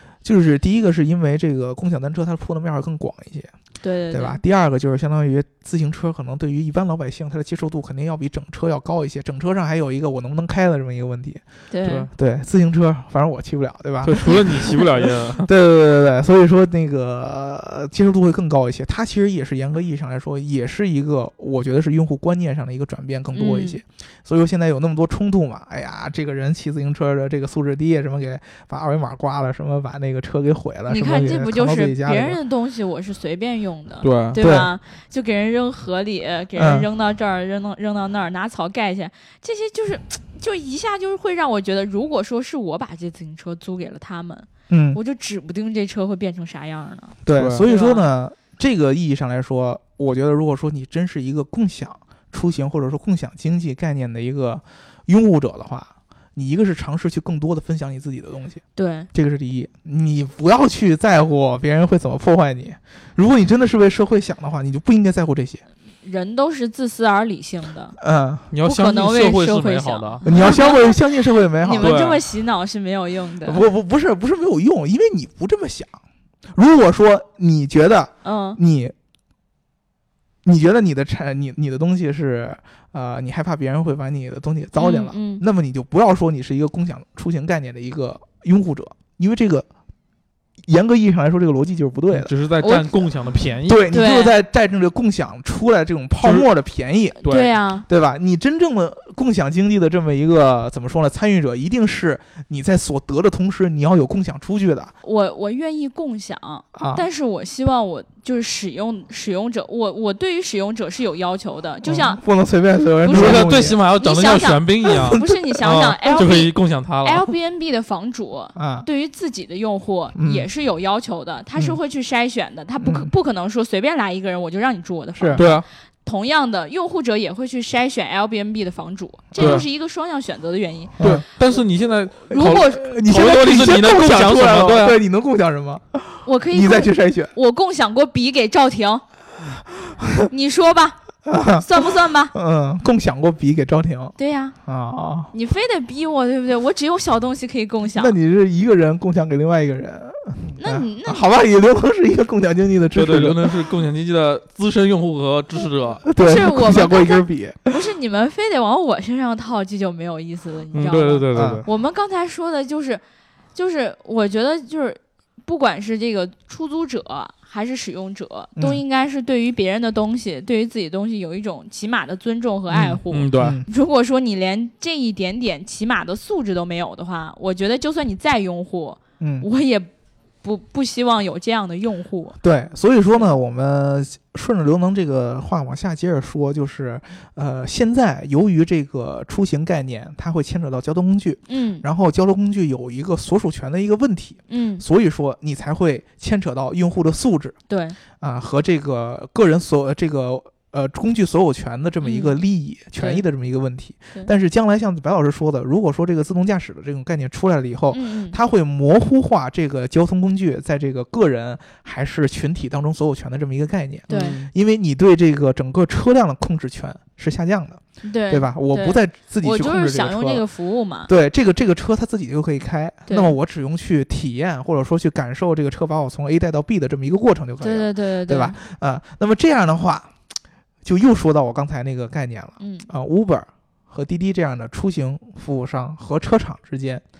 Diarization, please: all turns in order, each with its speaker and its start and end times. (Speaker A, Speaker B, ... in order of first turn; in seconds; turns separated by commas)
Speaker A: 0.2-3.5, Speaker B: 3.8-4.4, Speaker A: 4.1-11.4, Speaker B: 11.7-12.1, Speaker C: 11.8-12.1, Speaker A: 12.1-32.4, Speaker C: 14.0-15.5, Speaker B: 23.3-23.8, Speaker B: 30.9-48.0, Speaker C: 34.0-34.4, Speaker A: 34.4-34.7, Speaker A: 36.6-36.9, Speaker A: 44.7-45.0, Speaker A: 47.2-65.6, Speaker C: 47.4-47.6, Speaker B: 58.8-59.1, Speaker B: 66.0-68.0, Speaker A: 68.0-68.5, Speaker C: 68.5-70.3, Speaker B: 68.6-71.0, Speaker A: 70.2-72.0, Speaker B: 71.6-73.6, Speaker C: 71.8-72.2, Speaker A: 73.4-76.0, Speaker A: 76.5-78.9, Speaker B: 78.2-78.6, Speaker A: 80.4-89.7, Speaker B: 84.8-85.4, Speaker A: 90.6-93.1, Speaker C: 92.1-93.9, Speaker B: 92.6-92.9, Speaker A: 93.6-97.2, Speaker B: 93.9-94.3, Speaker C: 96.2-96.5, Speaker C: 97.2-97.5, Speaker B: 97.2-97.9, Speaker A: 97.9-104.9, Speaker B: 105.0-112.2, Speaker A: 106.7-107.1, Speaker A: 111.8-113.8, Speaker B: 113.0-131.0, Speaker C: 113.1-117.3, Speaker A: 118.6-118.9, Speaker A: 120.2-120.5, Speaker A: 122.8-123.1, Speaker A: 125.2-125.5, Speaker C: 125.4-125.7, Speaker A: 129.4-129.7, Speaker C: 129.4-129.7, Speaker A: 131.0-131.2, Speaker C: 131.0-135.0, Speaker B: 132.3-132.8, Speaker A: 132.3-137.3, Speaker B: 136.2-139.0, Speaker A: 139.8-140.3, Speaker B: 140.3-142.3, Speaker A: 141.3-141.7, Speaker A: 142.3-145.3, Speaker B: 144.2-144.6, Speaker B: 145.3-148.2, Speaker A: 147.9-153.6, Speaker B: 150.6-151.2, Speaker C: 152.9-156.1, Speaker A: 156.1-157.8, Speaker B: 156.2-163.0, Speaker C: 160.7-161.7, Speaker A: 161.3-161.7, Speaker B: 163.5-179.9, Speaker A: 168.6-168.8, Speaker A: 172.7-173.7, Speaker C: 173.1-173.6, Speaker A: 179.2-179.5, Speaker B: 180.4-182.4, Speaker A: 182.4-197.6, Speaker B: 191.5-191.9, Speaker B: 194.5-194.8, Speaker B: 197.7-198.0, Speaker A: 198.2-220.4, Speaker B: 202.0-202.4, Speaker B: 203.0-203.2, Speaker B: 207.9-208.4, Speaker B: 214.1-214.5, Speaker C: 214.1-214.5, Speaker B: 218.0-221.1, Speaker A: 221.1-230.1, Speaker B: 223.1-223.3, Speaker B: 227.6-228.6, Speaker A: 230.8-237.0, Speaker B: 232.6-232.9